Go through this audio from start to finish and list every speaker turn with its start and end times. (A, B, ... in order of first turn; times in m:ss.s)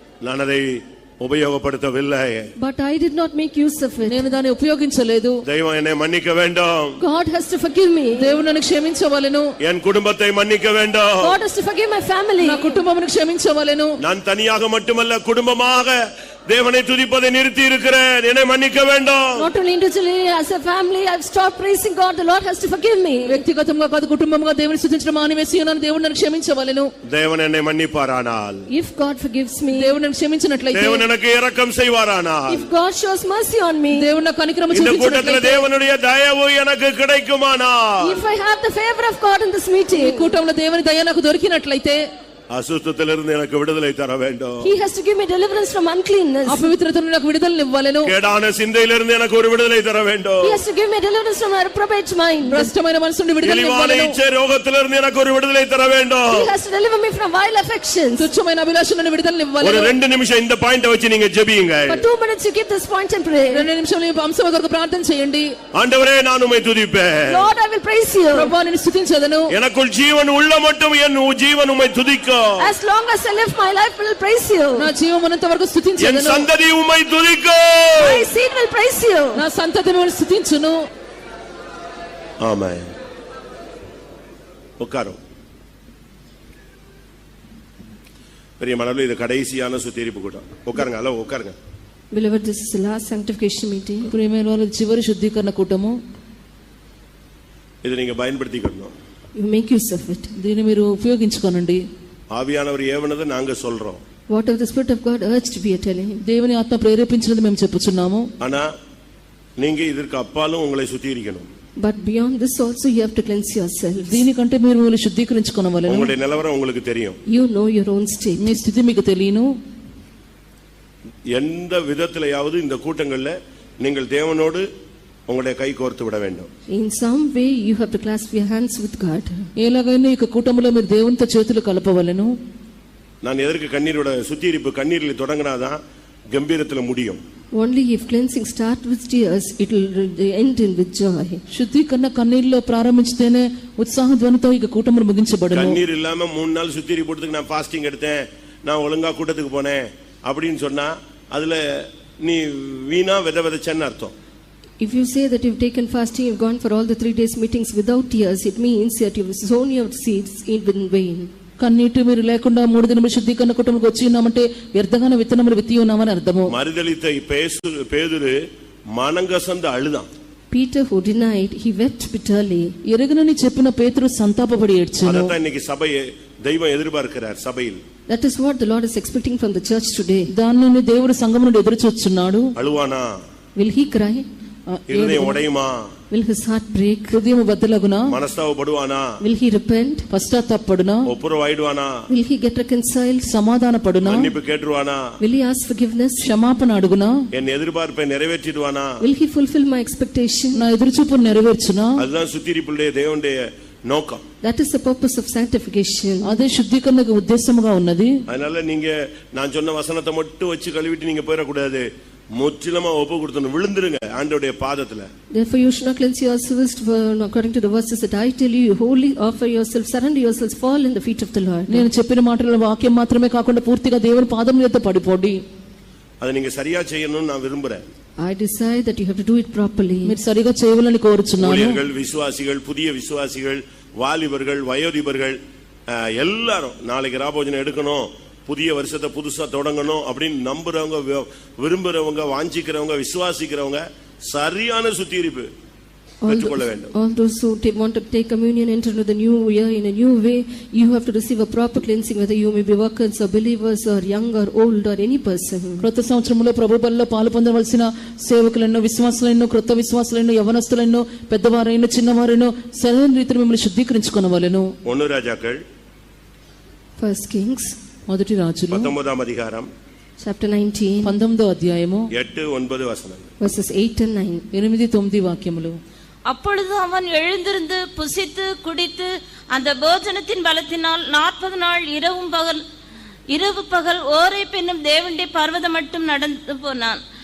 0:00.2-0:02.5 A
0:02.6-0:04.2 B
0:04.0-0:05.4 C
0:05.4-0:07.0 A
0:07.0-0:08.4 B
0:08.2-0:09.5 C
0:09.6-0:11.4 A
0:11.2-0:12.8 B
0:12.4-0:13.9 C
0:14.0-0:19.5 A
0:19.4-0:23.4 B
0:23.3-0:26.9 C
0:27.1-0:28.6 A
0:28.7-0:29.9 B
0:29.7-0:31.0 C
0:30.7-0:32.7 A
0:32.5-0:34.1 B
0:33.9-0:35.7 C
0:34.7-0:38.2 A
0:38.0-0:40.3 B
0:39.9-0:42.0 C
0:42.5-0:44.7 A
0:44.6-0:46.6 B
0:46.5-0:48.1 C
0:48.0-0:50.6 A
0:50.4-0:52.7 B
0:52.5-0:54.1 C
0:53.4-0:56.5 A
0:56.3-0:58.3 B
0:58.2-0:59.9 C
0:59.6-1:02.0 A
1:01.9-1:03.6 B
1:03.5-1:05.5 C
1:05.8-1:07.5 A
1:07.2-1:08.5 B
1:08.3-1:09.5 C
1:09.5-1:12.7 A
1:12.6-1:14.9 B
1:14.8-1:16.5 C
1:16.0-1:18.3 A
1:18.0-1:19.4 B
1:19.3-1:20.8 C
1:22.4-1:22.9 A
1:24.8-1:25.2 A
1:28.6-1:31.6 A
1:32.1-1:34.1 B
1:34.1-1:36.0 C
1:37.8-1:38.9 A
1:39.4-1:40.3 B
1:40.4-1:41.8 C
1:42.3-1:44.0 A
1:44.3-1:46.2 B
1:46.2-1:48.3 C
1:48.4-1:48.7 A
1:49.6-1:51.5 A
1:51.8-1:54.2 B
1:54.0-1:56.1 C
1:55.9-1:57.2 A
1:57.3-1:58.6 B
1:58.4-1:59.5 C
2:01.3-2:04.7 A
2:05.3-2:06.5 A
2:06.7-2:09.4 B
2:09.6-2:12.3 C
2:13.2-2:15.8 A
2:16.3-2:17.2 A
2:17.5-2:21.4 B
2:21.5-2:25.8 C
2:25.5-2:34.1 A
2:34.8-2:41.3 B
2:41.6-2:46.5 C
2:46.5-2:48.4 A
2:49.0-2:50.1 A
2:50.5-2:52.8 B
2:52.9-2:55.3 C
2:55.0-2:57.8 A
2:58.1-3:00.3 B
3:00.3-3:02.5 C
3:02.6-3:03.2 A
3:03.6-3:04.3 B
3:04.7-3:05.4 C
3:04.9-3:05.9 A
3:06.1-3:07.2 B
3:07.1-3:08.0 C
3:08.1-3:09.2 A
3:09.2-3:10.0 B
3:10.1-3:11.0 C
3:11.1-3:12.0 A
3:12.1-3:13.3 B
3:13.2-3:14.3 C
3:14.0-3:15.2 A
3:15.2-3:16.2 B
3:16.2-3:17.1 C
3:17.3-3:19.0 A
3:19.0-3:20.6 B
3:20.5-3:22.0 C
3:22.0-3:24.2 A
3:24.4-3:26.3 B
3:26.2-3:28.1 C
3:28.3-3:35.1 A
3:35.3-3:41.9 B
3:41.7-3:45.4 C
3:46.2-3:47.8 A
3:48.2-3:50.1 B
3:50.0-3:51.8 C
3:51.4-3:55.4 A
3:55.9-4:05.5 A
4:06.2-4:15.8 B
4:06.3-4:06.9 A
4:15.8-4:24.7 C
4:24.8-4:25.6 A
4:27.0-4:27.8 B
4:28.1-4:28.9 C
4:28.7-4:29.7 A
4:30.2-4:31.2 B
4:31.0-4:32.1 C
4:32.1-4:33.3 A
4:33.4-4:34.4 B
4:34.5-4:35.8 C
4:36.3-4:42.6 D
4:43.3-4:47.0 D